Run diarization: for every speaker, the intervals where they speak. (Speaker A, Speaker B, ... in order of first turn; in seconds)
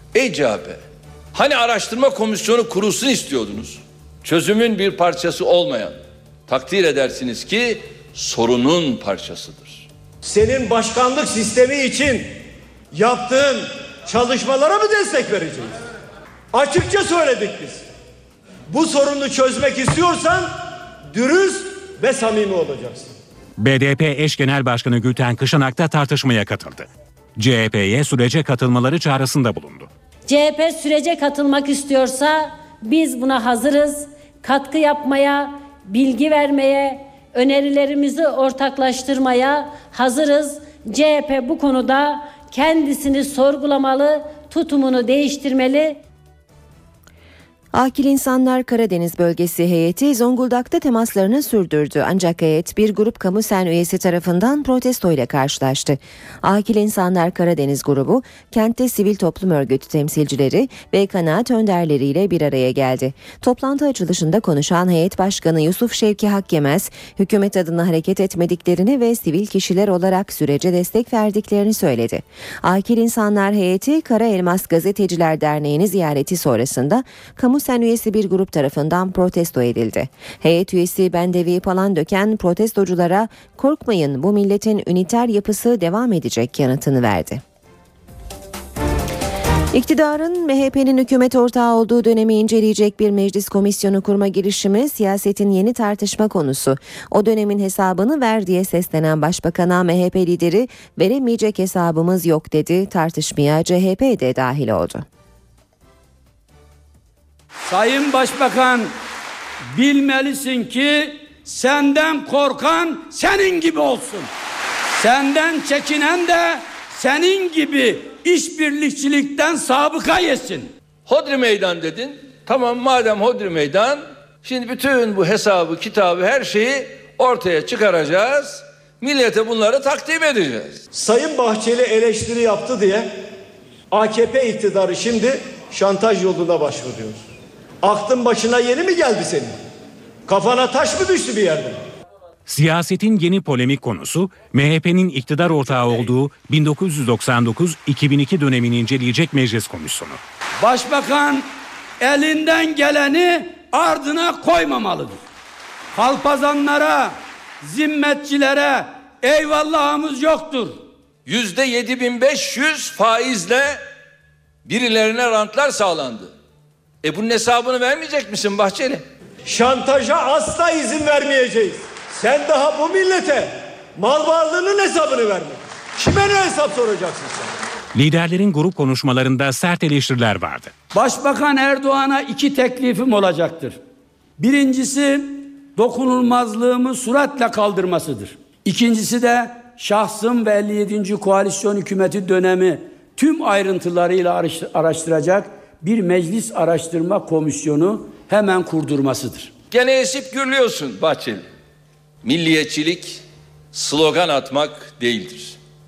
Speaker A: 0.1-0.8, 1.3-6.0, 6.5-9.8, 121.1-130.8, 161.2-163.8, 164.6-166.3, 167.0-169.0, 199.7-201.4, 202.2-203.2, 203.7-205.6
Speaker B: 10.2-12.3, 12.9-15.8, 16.5-17.8, 18.7-20.5, 21.1-23.1, 130.9-133.1, 133.9-137.2, 137.8-139.5, 140.3-141.8, 169.4-177.5
Speaker C: 23.6-29.9, 142.5-150.2, 177.9-180.7
Speaker D: 30.3-46.0
Speaker E: 47.7-87.4, 89.7-105.0
Speaker F: 107.7-108.9, 109.7-114.3, 115.0-120.7, 150.6-155.2, 155.9-160.8, 180.9-183.8, 184.4-199.5